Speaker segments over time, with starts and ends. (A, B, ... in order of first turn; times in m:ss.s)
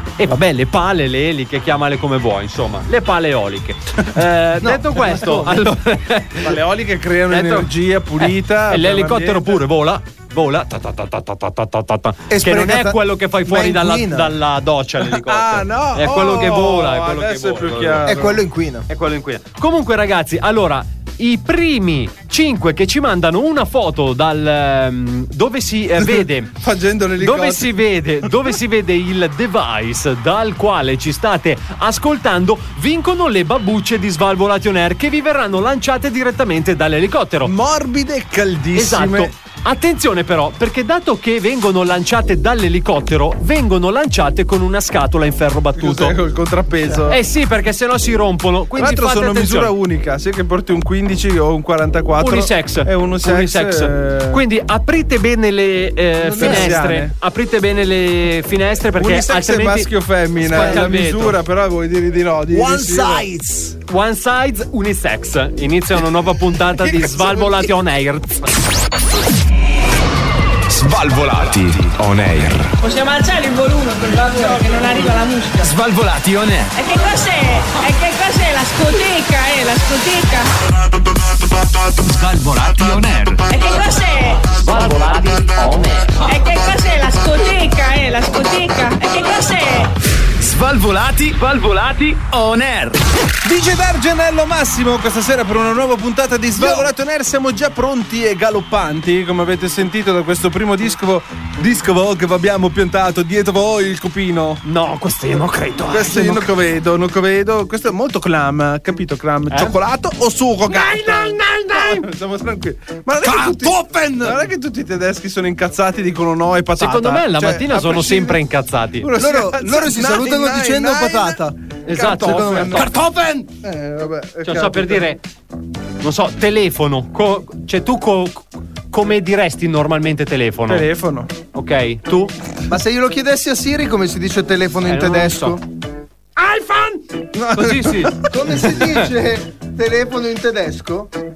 0:00.2-0:06.6 A
0:04.6-0:05.7 B
0:06.4-0:09.6 C
0:07.3-0:18.1 A
0:12.3-0:14.3 B
0:15.0-0:18.4 C
0:18.0-0:18.9 B
0:18.9-0:26.6 A
0:26.0-0:27.8 C
0:27.2-0:37.5 A
0:37.4-0:39.3 C
0:38.8-0:46.2 A
0:45.8-0:47.2 C
0:47.1-0:49.7 A
0:48.8-0:54.4 C
0:52.2-0:59.9 A
0:56.2-0:56.8 B
0:56.4-0:57.1 C
0:59.0-1:03.3 C
1:00.4-1:01.4 A
1:00.4-1:00.9 B
1:02.5-1:03.8 B
1:03.9-1:08.5 A
1:06.9-1:07.6 C
1:10.7-1:12.7 D
1:12.8-1:15.6 E
1:15.6-1:16.8 D
1:16.8-1:20.5 E
1:22.0-1:23.4 D
1:23.5-1:24.4 E
1:24.6-1:26.2 A
1:26.3-1:29.9 E
1:30.4-1:33.0 D
1:33.4-1:44.6 C
1:36.6-1:36.9 B
1:44.6-1:46.5 A
1:45.9-1:58.4 C
1:49.5-1:49.8 A
1:50.7-1:52.0 A
1:53.2-1:54.4 B
1:56.8-1:59.1 A
1:59.0-2:02.9 C
1:59.2-2:03.6 B
2:01.9-2:03.0 A
2:03.6-2:05.0 C
2:04.4-2:05.2 A
2:06.0-2:10.9 A
2:10.7-2:11.3 C
2:11.5-2:12.3 A
2:12.7-2:15.6 B
2:14.9-2:15.6 A
2:17.3-2:18.3 C
2:17.5-2:19.0 A
2:18.3-2:21.1 B